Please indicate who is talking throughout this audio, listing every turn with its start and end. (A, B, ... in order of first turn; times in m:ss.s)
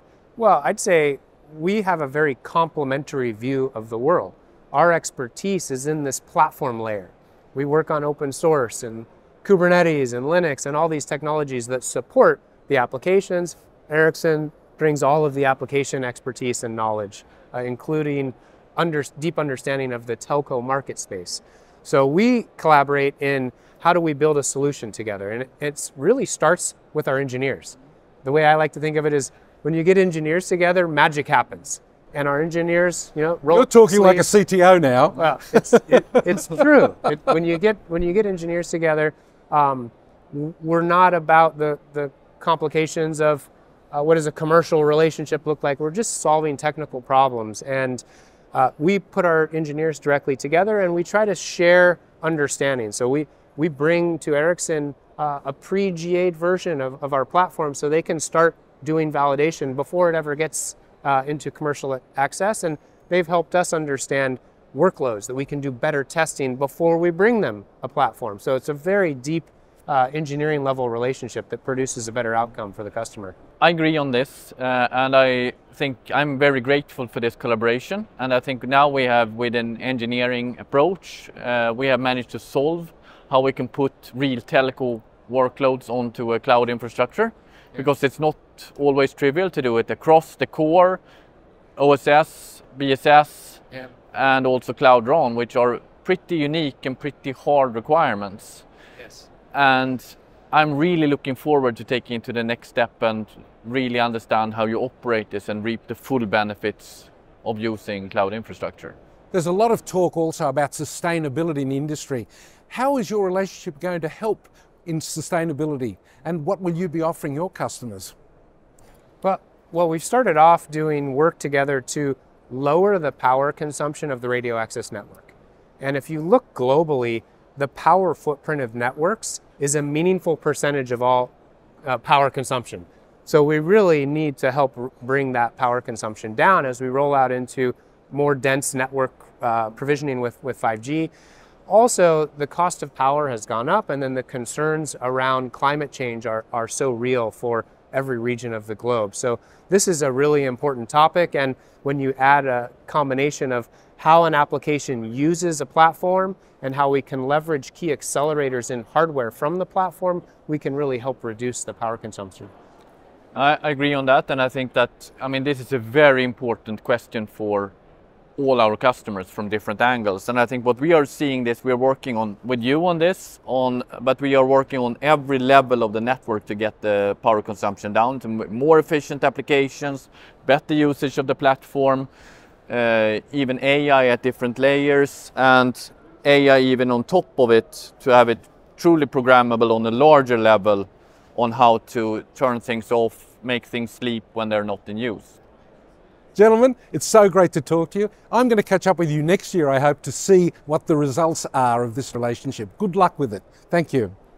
0:00.4-0:34.3 A
0:33.5-0:36.2 B
0:35.2-1:13.4 A
1:13.6-1:31.0 C
1:31.8-1:38.6 C
1:39.0-1:39.3 A
1:39.5-1:48.9 C
1:49.3-1:58.1 B
1:59.2-2:11.3 A
2:11.8-2:21.1 A
2:21.7-2:42.5 A
2:43.3-2:47.7 C
2:48.4-3:02.1 C
3:02.7-3:15.4 C
3:16.3-3:24.1 B